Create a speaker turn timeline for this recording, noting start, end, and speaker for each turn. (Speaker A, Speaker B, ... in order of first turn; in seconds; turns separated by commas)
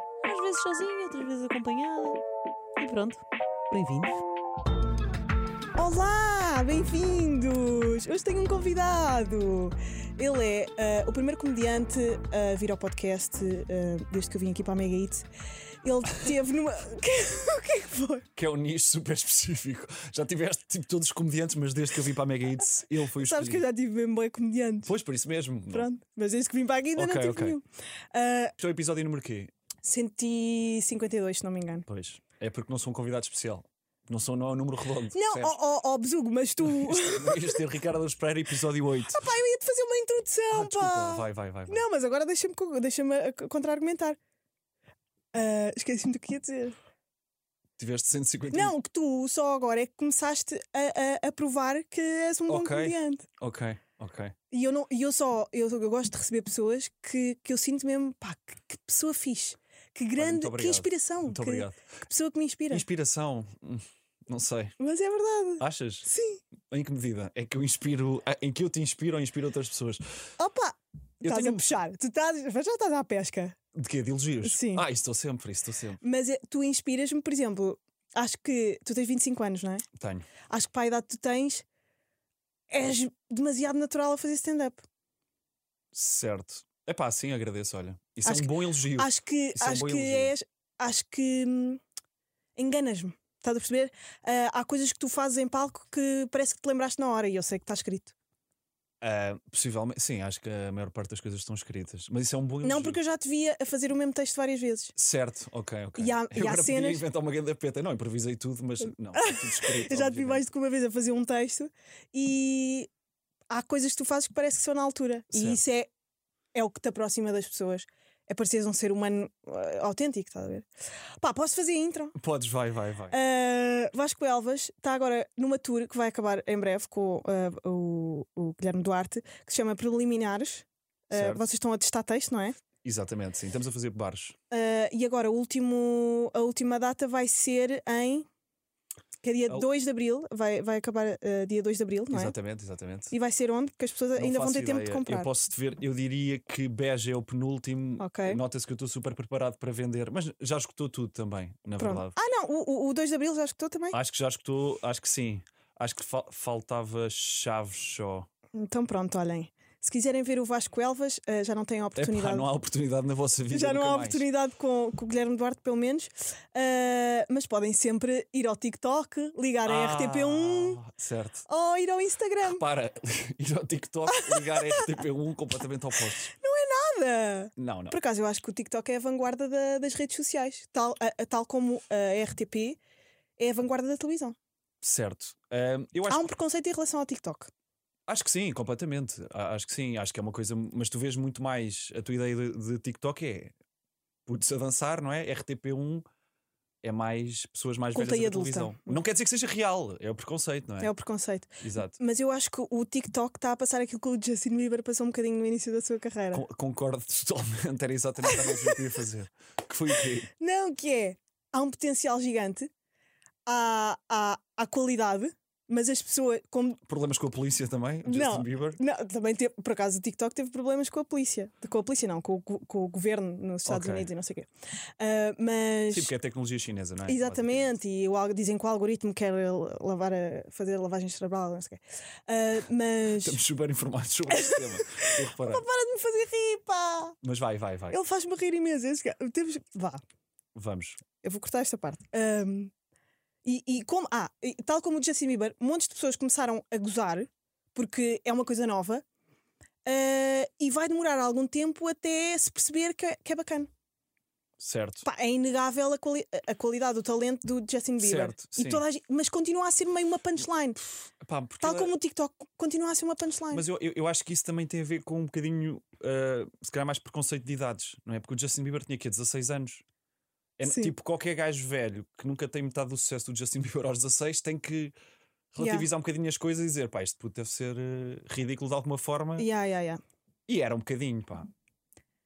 Speaker A: 0.2-2.2, Speaker A: 2.8-4.2, Speaker B: 5.8-15.3, Speaker B: 15.8-18.3, Speaker C: 18.4-23.6, Speaker B: 23.2-24.9, Speaker C: 24.9-25.9, Speaker B: 25.7-28.6, Speaker C: 27.0-27.6, Speaker C: 28.6-29.5, Speaker B: 29.8-31.9, Speaker C: 31.9-35.5, Speaker B: 35.1-37.6, Speaker C: 36.6-39.2, Speaker B: 39.1-44.2, Speaker C: 40.5-41.9, Speaker B: 45.3-46.8, Speaker C: 47.8-48.7, Speaker B: 48.5-53.3, Speaker C: 52.5-54.4, Speaker B: 54.5-62.9, Speaker C: 60.2-61.8, Speaker C: 62.7-64.7, Speaker B: 64.8-66.4, Speaker C: 65.6-66.1, Speaker C: 66.7-70.0, Speaker B: 70.4-73.6, Speaker C: 71.2-71.8, Speaker C: 73.7-76.0, Speaker B: 74.4-74.8, Speaker B: 76.0-79.8, Speaker C: 80.0-80.3, Speaker B: 80.5-81.7, Speaker B: 82.7-84.8, Speaker C: 85.9-90.3, Speaker B: 88.2-91.8, Speaker B: 92.6-98.1, Speaker C: 99.0-103.0, Speaker B: 102.6-105.0, Speaker C: 105.0-110.4, Speaker B: 106.0-107.0, Speaker B: 109.1-112.9, Speaker B: 113.5-115.9, Speaker C: 115.3-115.6, Speaker B: 116.5-120.7, Speaker B: 121.2-122.2, Speaker C: 122.2-123.2, Speaker B: 123.1-132.6, Speaker C: 131.1-131.5, Speaker C: 132.8-134.4, Speaker B: 134.5-138.3, Speaker B: 139.2-142.3, Speaker C: 142.1-143.1, Speaker B: 143.1-145.3, Speaker C: 144.2-152.2, Speaker B: 148.0-148.4, Speaker B: 151.8-154.0, Speaker C: 153.9-158.3, Speaker B: 158.6-162.5, Speaker C: 162.0-164.3, Speaker B: 163.5-170.8, Speaker C: 169.7-171.5, Speaker B: 171.5-172.6, Speaker C: 172.4-176.3, Speaker B: 174.1-175.0, Speaker B: 176.4-182.8, Speaker C: 177.6-178.0, Speaker B: 183.4-184.4, Speaker C: 184.8-186.3, Speaker B: 186.1-187.5, Speaker C: 188.1-193.5, Speaker C: 194.3-196.1, Speaker C: 196.8-200.9, Speaker B: 197.9-199.0, Speaker B: 200.8-206.4, Speaker C: 201.6-202.0, Speaker C: 206.3-210.3, Speaker B: 208.2-208.8, Speaker B: 210.3-212.7, Speaker B: 213.5-216.8, Speaker C: 216.9-218.8, Speaker B: 218.1-224.5, Speaker C: 223.7-224.1, Speaker B: 225.0-226.1, Speaker C: 225.9-227.8, Speaker B: 227.1-233.4, Speaker C: 233.2-235.7, Speaker B: 234.3-237.2, Speaker C: 237.2-238.0, Speaker B: 237.9-240.0, Speaker C: 240.6-241.0, Speaker B: 241.2-242.7, Speaker B: 243.4-249.0, Speaker B: 249.9-253.7, Speaker C: 254.6-255.1, Speaker B: 255.0-260.8, Speaker C: 258.0-258.8, Speaker C: 260.9-261.9, Speaker B: 261.6-263.6, Speaker C: 263.5-269.8, Speaker C: 270.6-274.9, Speaker B: 270.6-270.9, Speaker C: 275.5-279.5, Speaker B: 275.6-275.9, Speaker B: 279.4-280.0, Speaker C: 280.5-281.5